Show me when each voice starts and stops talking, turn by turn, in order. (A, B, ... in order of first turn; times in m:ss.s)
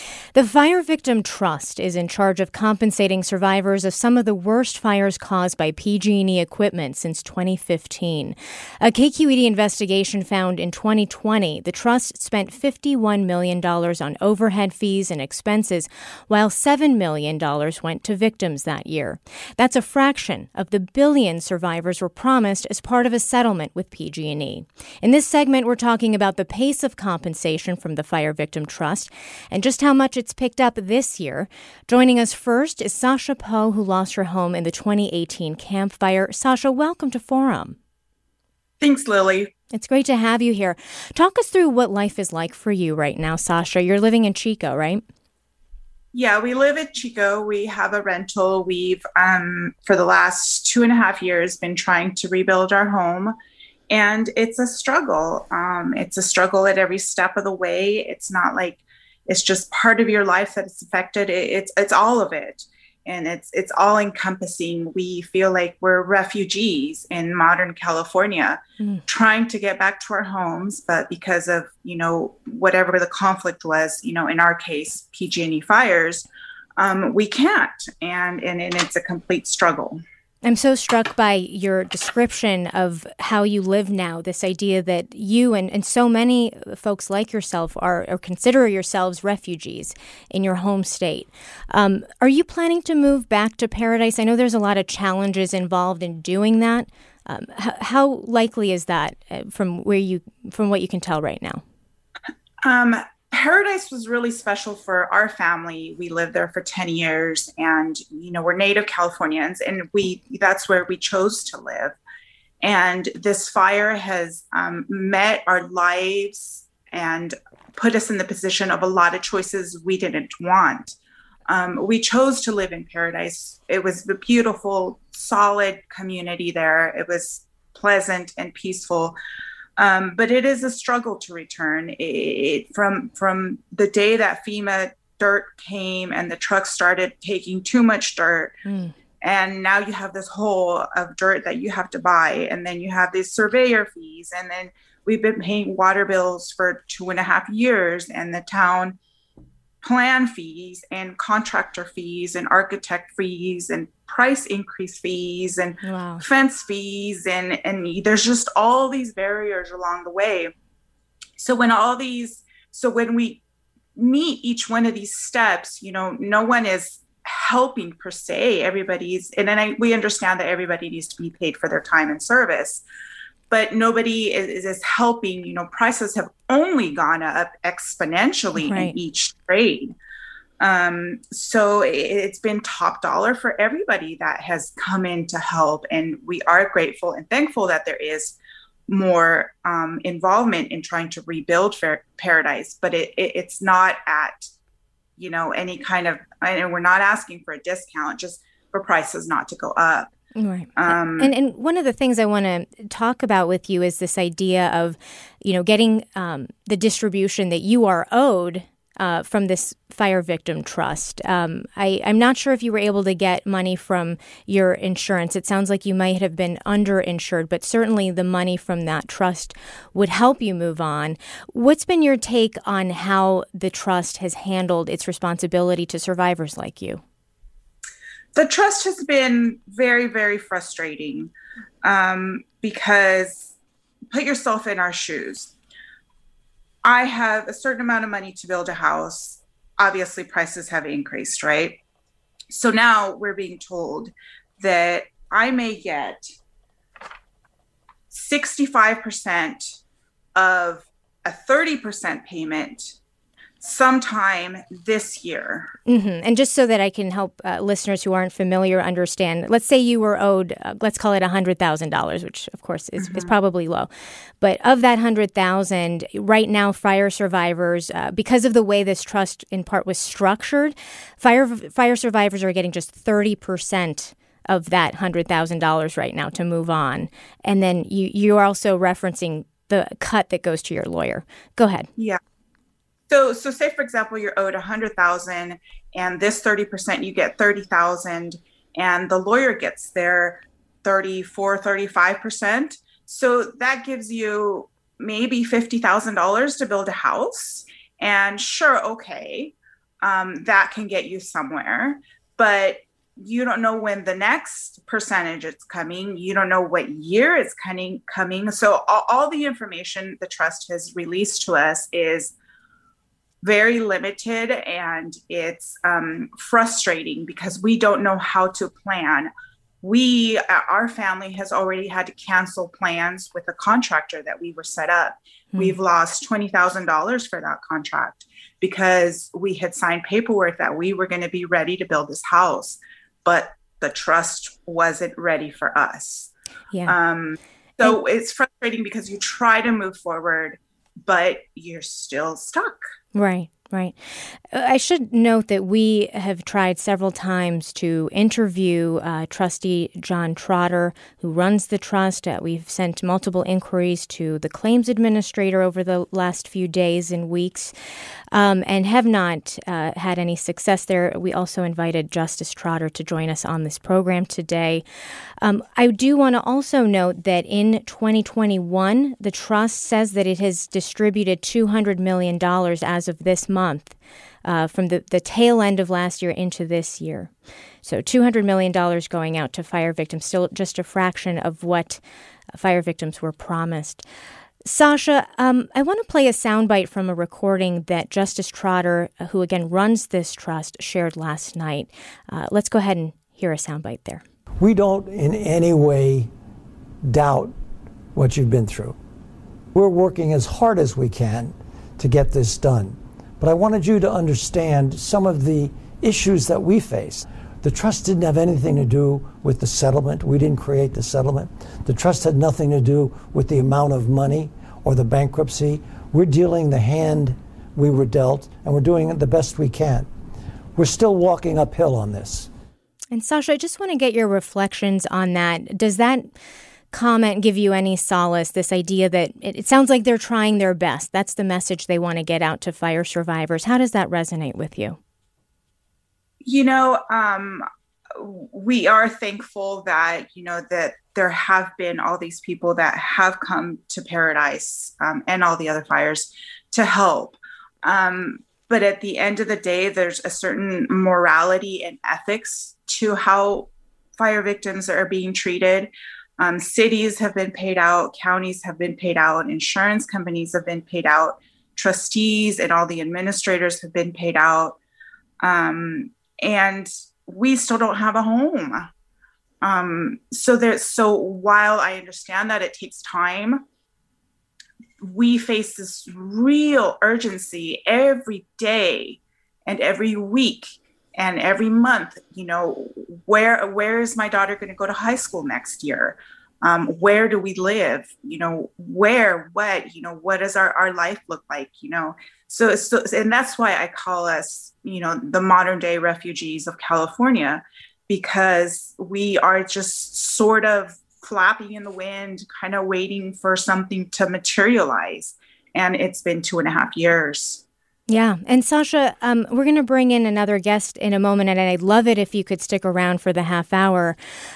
0:00.3-0:37.8 A
0:38.8-0:39.5 B
0:39.7-0:45.0 A
0:46.1-0:53.4 B
0:53.9-1:20.0 B
1:20.4-1:41.6 A
1:42.6-1:52.0 B
1:52.6-2:01.0 B
2:01.5-2:09.2 B
2:09.8-2:18.6 B
2:18.7-2:18.9 A
2:19.2-2:29.0 B
2:29.8-2:40.5 B
2:35.8-2:36.2 A
2:41.4-2:43.4 B
2:44.0-2:52.8 B
2:53.5-2:59.9 B
2:58.6-2:58.9 A
3:00.6-3:08.4 B
3:08.9-3:14.5 B
3:15.2-3:20.1 B
3:20.4-3:47.0 A
3:20.8-3:21.3 B
3:48.4-3:51.3 B
3:51.8-3:53.5 B
3:54.1-3:55.5 B
3:56.8-4:01.8 B
4:02.5-4:06.3 B
4:08.1-4:09.8 B
4:10.4-4:13.0 B
4:13.6-4:15.7 B
4:15.9-4:23.9 A
4:23.0-4:23.3 B
4:24.4-4:41.9 A
4:43.1-5:12.3 B
5:13.4-5:19.3 B
5:19.8-5:36.3 B
5:36.9-5:42.8 B
5:43.2-5:44.0 A
5:44.5-5:57.7 A
5:58.3-6:04.8 A
6:05.4-6:17.3 A
6:17.8-6:22.0 A
6:22.5-6:24.0 A
6:24.6-6:34.2 A
6:34.6-6:36.3 C
6:37.0-6:37.5 C
6:38.1-6:39.0 C
6:39.7-7:00.1 C
7:00.8-7:02.5 C
7:03.1-7:06.3 A
7:06.9-7:15.0 A
7:16.4-7:44.8 B
7:45.4-7:48.9 B
7:49.6-7:53.6 B
7:55.0-8:27.6 B
8:28.1-8:34.2 A